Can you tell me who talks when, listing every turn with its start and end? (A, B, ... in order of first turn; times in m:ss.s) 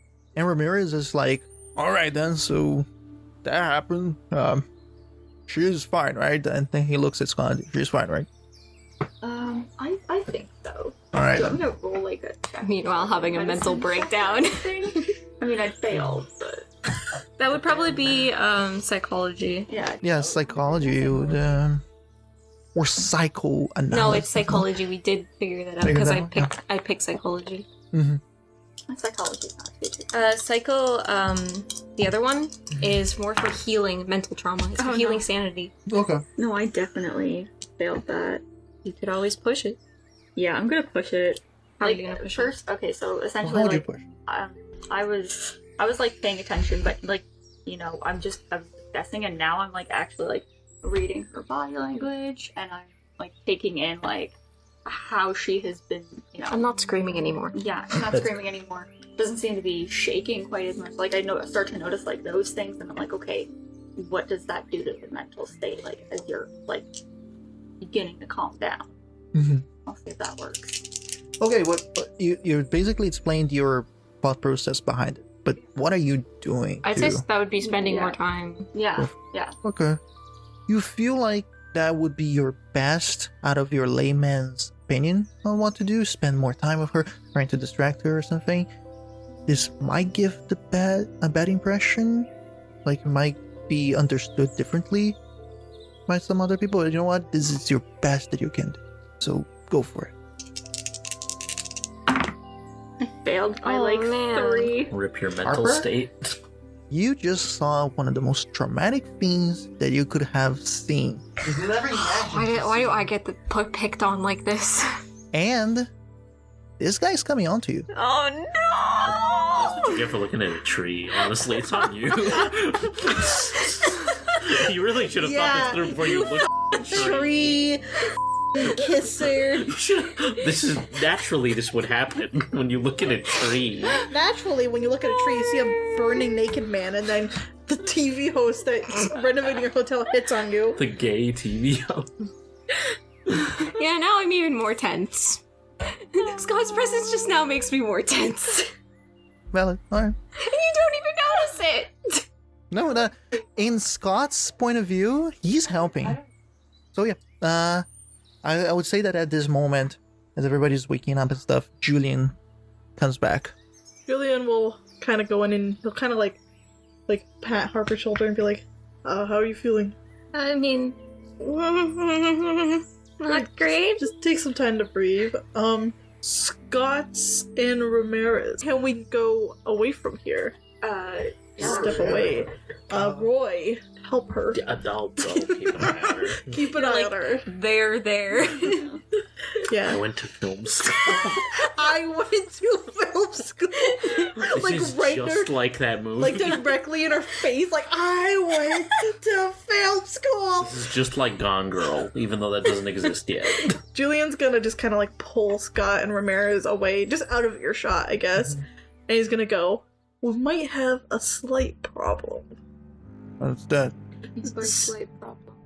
0:00.3-0:02.9 A
0:03.4-0:04.6 A
0:05.5-0:08.3 A
0:09.2-0:16.7 B
0:11.1-0:11.6 A
0:12.6-0:15.1 C
0:17.4-0:19.7 C
0:19.7-0:21.6 B
0:20.0-0:21.8 A
0:22.7-0:24.7 A
0:23.9-0:27.7 C
0:25.8-0:26.5 A
0:27.9-0:28.2 A
0:28.9-0:30.3 B
0:30.1-0:35.7 C
0:34.8-0:35.3 B
0:35.9-0:36.2 A
0:36.4-0:38.4 B
0:38.8-0:39.8 C
0:40.4-0:56.7 B
0:41.8-0:42.6 C
0:43.4-0:44.0 A
0:56.5-0:57.6 C
0:57.5-1:07.0 B
1:07.8-1:08.9 B
1:09.3-1:09.6 A
1:09.8-1:10.9 B
1:11.4-1:17.2 A
1:16.8-1:18.7 C
1:17.6-1:18.2 B
1:18.7-1:19.6 B
1:19.6-1:20.0 A
1:20.7-1:28.7 A
1:29.5-1:32.3 A
1:32.8-1:35.2 A
1:36.1-1:40.1 A
1:43.0-1:44.9 B
1:43.6-1:44.9 C
1:44.9-1:46.3 D
1:45.4-1:45.9 A
1:46.9-1:53.1 A
1:51.9-1:54.8 C
1:55.3-1:55.9 A
1:56.8-1:57.9 A
1:57.9-2:00.0 C
1:59.1-2:07.6 D
2:05.2-2:06.2 E
2:06.7-2:07.8 E
2:08.5-2:09.7 E
2:09.2-2:14.1 D
2:14.0-2:20.8 E
2:20.8-2:22.1 D
2:23.6-2:28.7 C
2:29.5-2:30.2 A
2:30.4-2:32.2 C
2:32.7-2:36.2 A
2:36.9-2:37.8 A
2:38.4-2:42.3 A
2:43.0-2:43.5 A
2:44.1-2:46.4 E
2:47.1-2:50.0 E
2:50.3-2:54.1 C
2:53.3-3:00.5 E
3:00.8-3:02.3 B
3:01.6-3:04.6 E
3:02.9-3:03.3 A
3:04.5-3:06.7 D
3:05.2-3:07.5 E
3:06.7-3:08.9 C
3:08.6-3:08.9 B
3:09.7-3:10.0 E
3:09.8-3:11.4 D
3:11.3-3:15.5 E
3:14.3-3:16.7 D
3:16.2-3:20.9 E
3:20.6-3:23.8 D
3:23.8-3:32.6 E
3:28.4-3:28.6 A
3:33.4-3:33.9 A
3:34.3-3:35.6 B
3:34.4-3:34.9 E